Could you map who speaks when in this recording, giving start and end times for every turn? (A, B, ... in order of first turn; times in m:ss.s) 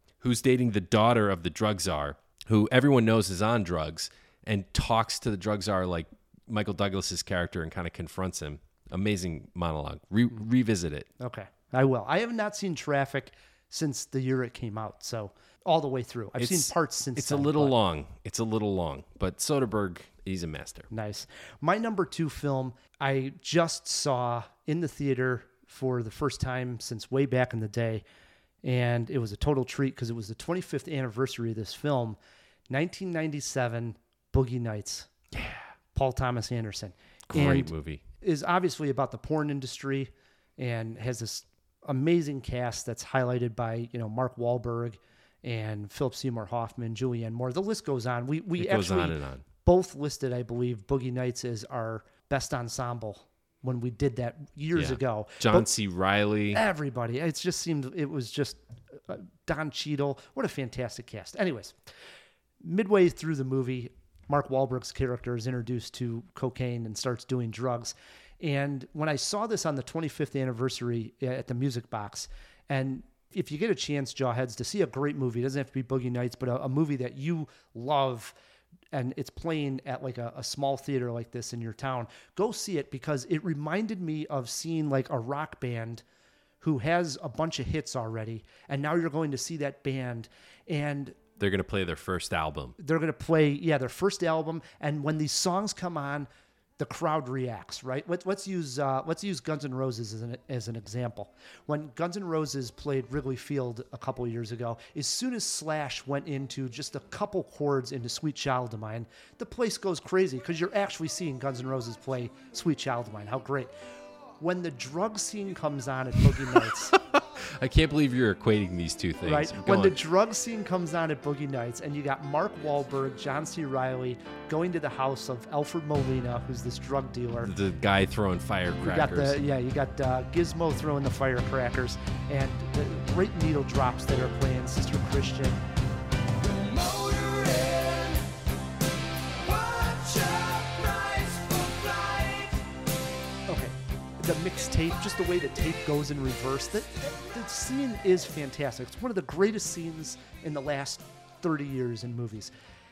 0:00.2-0:11.1 A
0:11.2-0:17.8 B
0:16.4-0:20.9 A
0:20.9-0:28.0 B
0:28.6-0:32.2 B
0:32.7-0:35.1 B
0:35.3-0:35.7 A
0:35.9-0:55.7 B
0:37.3-0:38.0 A
0:48.6-0:49.4 A
0:54.7-0:56.6 A
0:56.5-1:01.8 B
1:02.6-1:18.3 B
1:18.9-1:26.0 B
1:26.6-1:31.2 B
1:31.4-1:32.8 A
1:32.8-1:53.7 B
1:54.4-1:56.9 B
1:57.0-2:00.0 A
1:59.2-2:07.5 B
2:07.4-2:09.4 A
2:08.8-2:15.6 B
2:23.5-2:32.5 B